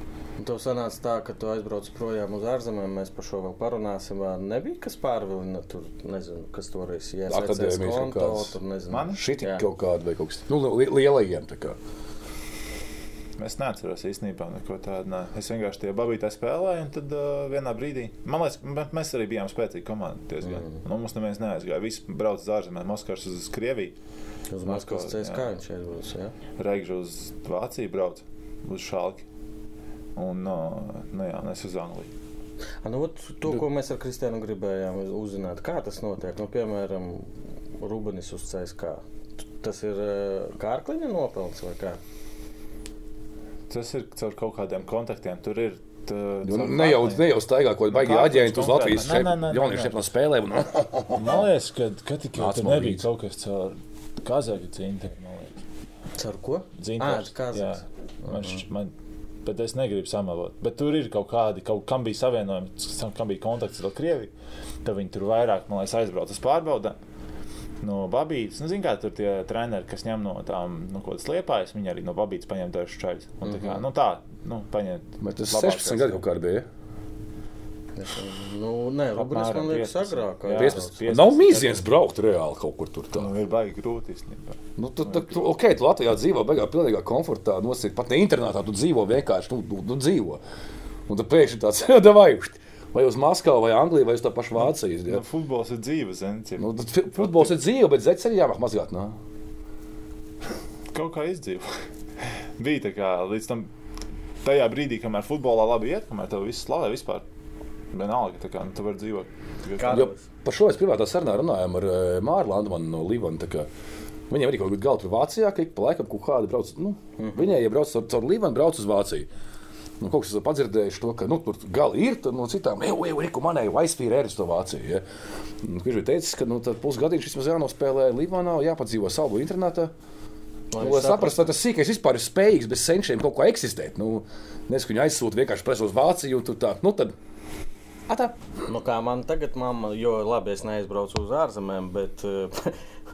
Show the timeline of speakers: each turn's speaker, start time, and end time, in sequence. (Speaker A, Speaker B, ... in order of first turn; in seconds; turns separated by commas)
Speaker A: 0.4-9.6, Speaker B: 7.3-8.5, Speaker C: 8.9-9.2, Speaker B: 9.2-11.8, Speaker C: 13.4-23.9, Speaker A: 20.4-20.8, Speaker A: 24.5-26.3, Speaker C: 24.6-25.4, Speaker C: 26.6-29.2, Speaker C: 30.1-32.1, Speaker A: 32.8-39.0, Speaker A: 39.6-42.0, Speaker C: 43.7-47.2, Speaker B: 46.4-51.5, Speaker C: 47.9-50.0, Speaker C: 51.1-55.6, Speaker B: 52.4-53.0, Speaker A: 56.2-58.5, Speaker C: 56.8-58.9, Speaker C: 59.4-64.3, Speaker C: 64.8-67.0, Speaker C: 67.8-76.2, Speaker A: 73.4-73.8, Speaker B: 75.2-76.7, Speaker A: 78.0-81.0, Speaker C: 79.2-81.8, Speaker B: 80.5-83.3, Speaker C: 83.1-85.5, Speaker B: 84.8-90.4, Speaker B: 91.1-95.2, Speaker C: 94.6-97.5, Speaker B: 96.6-99.1, Speaker C: 100.9-103.7, Speaker C: 104.4-107.2, Speaker C: 107.9-110.0, Speaker A: 109.8-110.2, Speaker B: 109.8-113.7, Speaker B: 114.3-119.3, Speaker A: 117.2-117.5, Speaker B: 120.0-125.0, Speaker B: 125.6-129.9, Speaker A: 130.7-131.5, Speaker B: 130.8-137.1, Speaker B: 138.1-138.3, Speaker A: 138.7-142.8